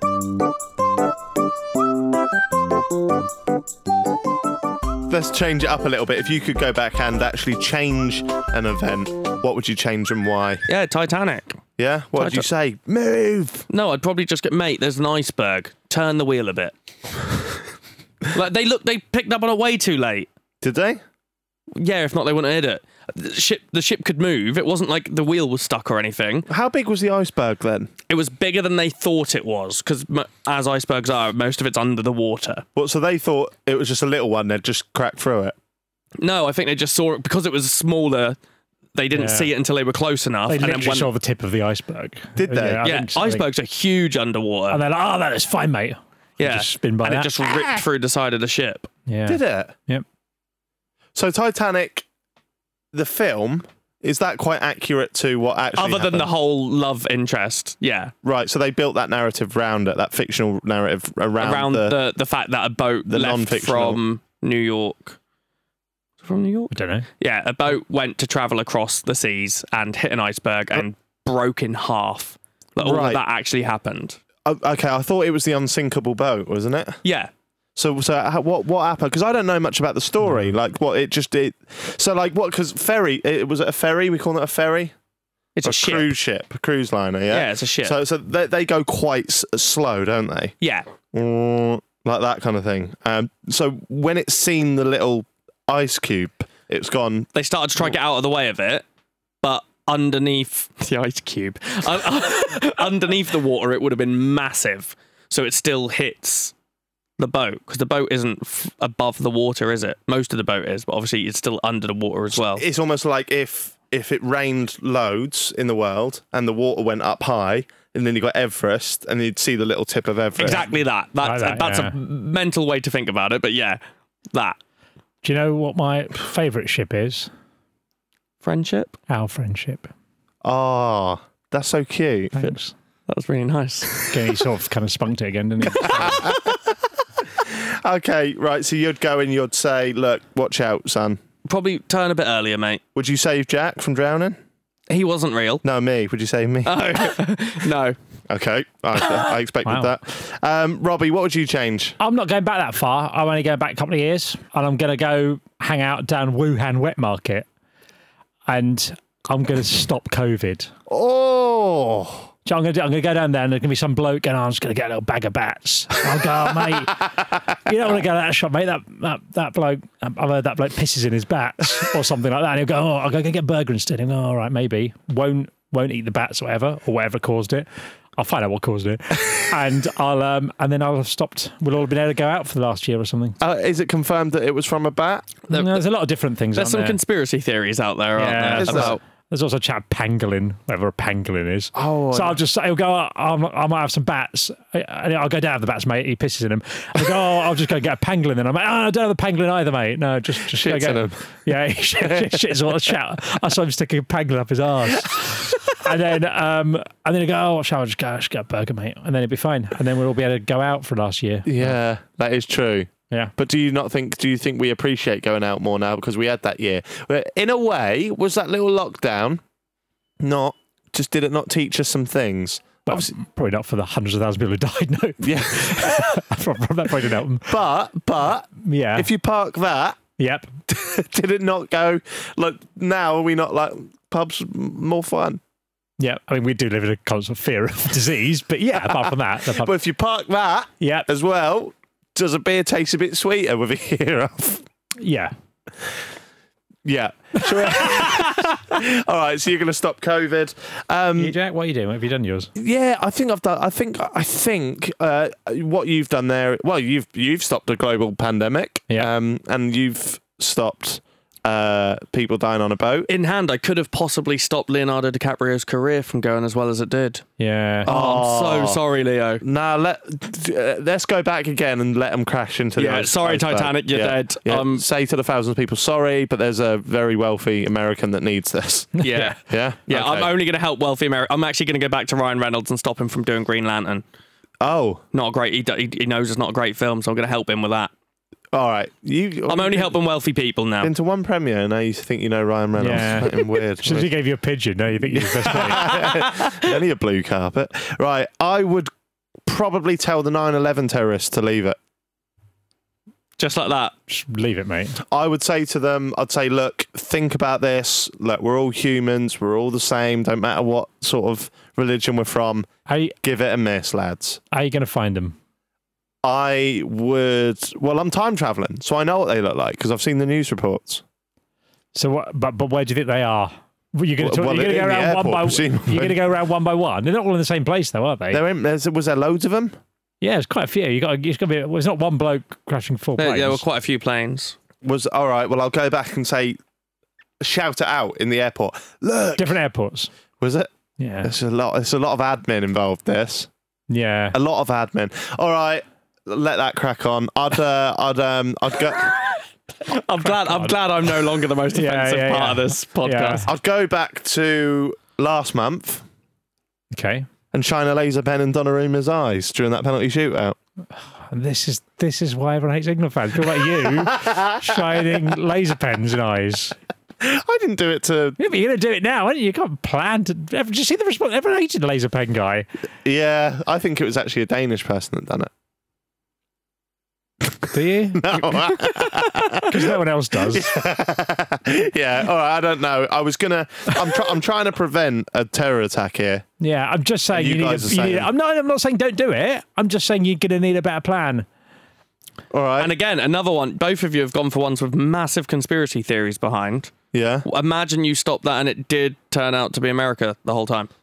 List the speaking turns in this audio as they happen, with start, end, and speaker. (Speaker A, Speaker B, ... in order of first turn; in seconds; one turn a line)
Speaker A: 5.1-10.6
Speaker B: 10.7-11.6
Speaker A: 11.8-13.7
Speaker B: 12.2-12.5
Speaker B: 13.7-16.7
Speaker B: 18.3-20.3
Speaker A: 20.6-21.0
Speaker B: 21.8-26.5
Speaker A: 26.5-27.9
Speaker B: 28.1-32.6
Speaker A: 32.8-35.5
Speaker B: 36.2-38.4
Speaker B: 39.0-41.1
Speaker C: 39.1-39.5
Speaker C: 40.5-43.5
Speaker A: 42.4-42.8
Speaker B: 42.8-44.8
Speaker C: 44.7-47.3
Speaker B: 46.4-48.9
Speaker C: 49.1-50.0
Speaker A: 49.3-49.7
Speaker A: 51.1-52.1
Speaker A: 52.9-56.3
Speaker B: 55.8-58.1
Speaker A: 58.2-62.0
Speaker B: 61.4-65.2
Speaker A: 63.1-64.0
Speaker B: 66.2-74.2
Speaker C: 66.7-67.1
Speaker A: 72.8-73.2
Speaker A: 74.5-77.0
Speaker B: 77.0-77.3
Speaker A: 77.8-84.9
Speaker C: 80.2-80.5
Speaker B: 85.6-86.1
Speaker A: 85.6-90.5
Speaker B: 87.3-88.0
Speaker A: 91.1-97.3
Speaker B: 97.3-98.8
Speaker B: 99.4-106.5
Speaker B: 107.2-112.6
Speaker A: 112.5-120.6
Speaker B: 120.4-123.8
Speaker C: 121.2-122.0
Speaker C: 125.2-127.3
Speaker B: 128.4-129.0
Speaker C: 129.1-129.9
Speaker A: 130.4-132.4
Speaker C: 132.3-132.7
Speaker B: 133.1-134.1
Speaker C: 134.1-136.3
Speaker A: 135.7-136.7
Speaker A: 137.3-141.2
Speaker B: 141.4-142.8
Speaker A: 142.9-144.4
Speaker B: 144.9-145.6
Speaker A: 145.6-147.1
Speaker B: 146.7-148.0
Speaker A: 148.3-152.0
Speaker C: 149.7-149.9
Speaker C: 152.0-157.5
Speaker C: 158.5-160.7
Speaker A: 160.9-162.3
Speaker C: 162.5-183.4
Speaker A: 183.4-185.4
Speaker B: 185.5-185.8
Speaker C: 185.5-187.0
Speaker B: 186.6-189.0
Speaker C: 188.2-211.7
Speaker A: 188.5-189.0
Speaker A: 191.8-192.4
Speaker A: 200.5-201.2
Speaker A: 202.0-202.7
Speaker A: 211.4-219.4
Speaker A: 220.2-223.1
Speaker C: 222.9-227.6
Speaker A: 225.2-226.2
Speaker A: 227.5-230.0
Speaker C: 228.6-229.1
Speaker C: 230.2-230.5
Speaker A: 230.7-235.4
Speaker C: 236.0-239.7
Speaker A: 238.7-244.7
Speaker C: 240.8-241.1
Speaker C: 245.0-245.3
Speaker A: 246.8-251.4
Speaker C: 247.4-248.4
Speaker C: 251.2-252.5
Speaker A: 252.6-263.1
Speaker B: 263.1-267.2
Speaker C: 267.4-267.9
Speaker B: 267.9-269.4
Speaker A: 267.9-268.8
Speaker A: 269.4-280.3
Speaker B: 272.8-274.9
Speaker C: 279.0-279.4
Speaker B: 279.0-284.0
Speaker A: 284.6-285.0
Speaker B: 285.1-287.9
Speaker A: 288.5-289.9
Speaker B: 289.5-290.9
Speaker A: 290.8-294.1
Speaker C: 292.8-295.9
Speaker A: 295.0-298.9
Speaker B: 295.8-296.7
Speaker A: 299.4-301.8
Speaker B: 303.4-303.9
Speaker C: 304.1-305.0
Speaker A: 305.0-312.7
Speaker C: 312.9-313.2
Speaker A: 313.2-314.4
Speaker C: 314.5-315.4
Speaker A: 316.2-321.0
Speaker C: 321.9-328.4
Speaker A: 324.2-326.2
Speaker A: 328.3-329.8
Speaker C: 330.2-333.6
Speaker B: 333.2-334.6
Speaker A: 334.8-336.6
Speaker A: 337.4-339.6
Speaker C: 339.4-340.1
Speaker A: 340.4-340.7
Speaker C: 341.0-341.3
Speaker A: 341.2-343.5
Speaker C: 343.9-344.4
Speaker A: 344.3-349.2
Speaker B: 349.9-353.5
Speaker C: 350.2-350.8
Speaker C: 351.7-353.5
Speaker A: 353.4-356.1
Speaker C: 356.9-357.3
Speaker A: 357.5-360.6
Speaker C: 361.1-366.8
Speaker A: 363.6-365.2
Speaker A: 367.2-368.4
Speaker C: 368.4-372.7
Speaker A: 373.0-375.5
Speaker A: 377.6-386.4
Speaker C: 377.7-378.9
Speaker C: 379.5-380.7
Speaker C: 386.6-391.5
Speaker A: 387.3-388.3
Speaker A: 392.5-392.9
Speaker B: 392.8-396.9
Speaker A: 397.1-397.5
Speaker B: 397.5-400.9